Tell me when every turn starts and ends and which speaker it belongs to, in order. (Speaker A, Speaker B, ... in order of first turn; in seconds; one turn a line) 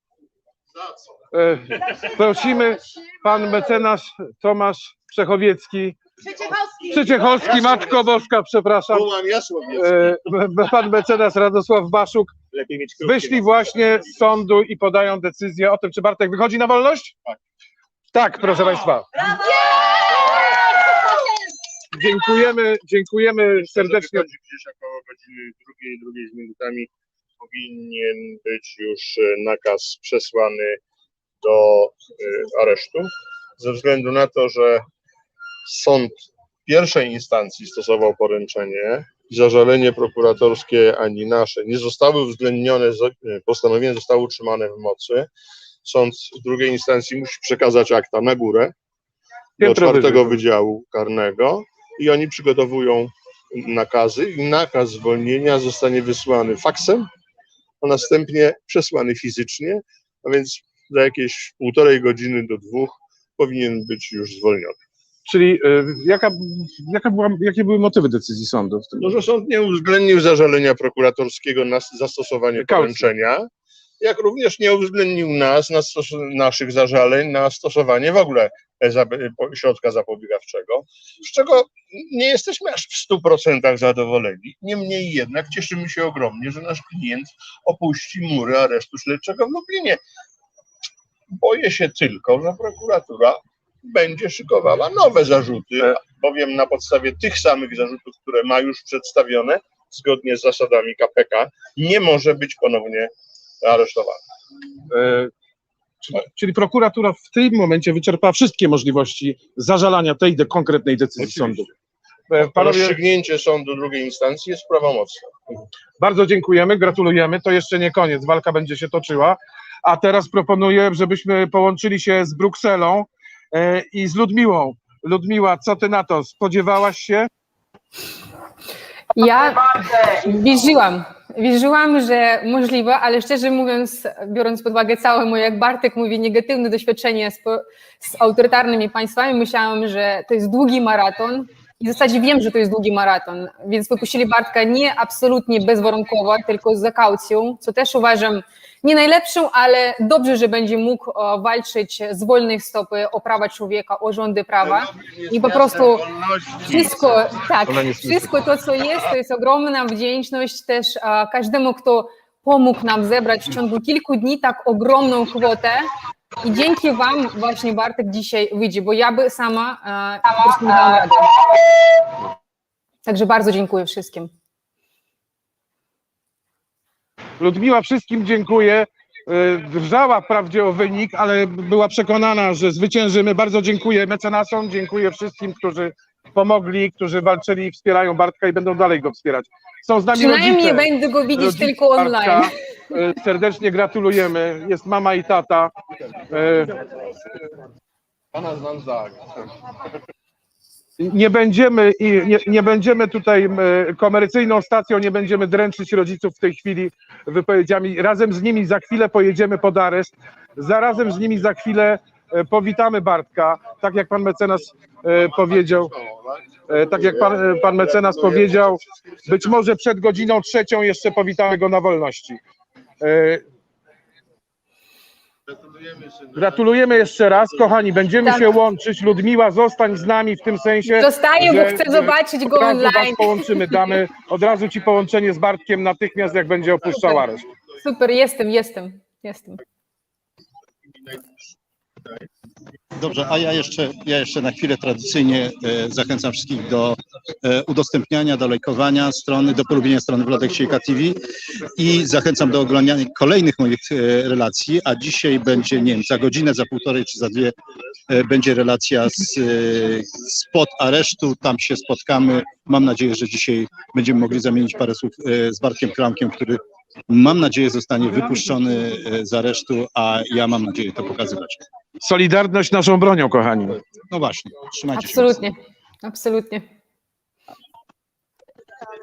Speaker A: 0.8-1.0
Speaker B: 1.3-6.0
Speaker B: 6.7-9.1
Speaker A: 7.3-8.1
Speaker A: 8.9-10.2
Speaker B: 9.7-12.3
Speaker A: 12.5-13.6
Speaker B: 13.0-17.1
Speaker B: 18.1-19.1
Speaker B: 21.9-24.3
Speaker A: 23.6-30.8
Speaker A: 31.4-34.8
Speaker A: 35.6-36.1
Speaker A: 36.6-45.3
Speaker A: 45.8-48.7
Speaker B: 49.6-50.4
Speaker A: 49.6-57.1
Speaker A: 57.8-64.8
Speaker B: 65.2-69.2
Speaker A: 69.0-73.5
Speaker B: 72.6-73.1
Speaker A: 74.0-90.0
Speaker A: 91.3-103.1
Speaker A: 103.6-104.2
Speaker B: 104.9-105.3
Speaker B: 106.0-111.7
Speaker A: 111.2-111.7
Speaker B: 112.3-113.0
Speaker A: 112.4-115.3
Speaker B: 116.0-127.3
Speaker C: 129.1-156.0
Speaker A: 154.6-157.5
Speaker C: 156.7-165.9
Speaker B: 157.8-158.2
Speaker C: 166.4-171.4
Speaker C: 173.0-174.3
Speaker B: 177.4-195.7
Speaker C: 190.1-192.5
Speaker B: 196.3-196.7
Speaker A: 198.3-199.5
Speaker B: 201.0-215.9
Speaker A: 215.2-218.8
Speaker B: 216.7-222.4
Speaker B: 223.0-223.4
Speaker A: 225.5-226.5
Speaker B: 226.3-237.4
Speaker C: 230.8-234.0
Speaker C: 236.9-237.2
Speaker C: 237.8-239.6
Speaker A: 241.1-241.3
Speaker D: 243.0-257.5
Speaker D: 258.1-271.6
Speaker B: 272.0-273.8
Speaker D: 274.1-275.4
Speaker C: 274.9-276.6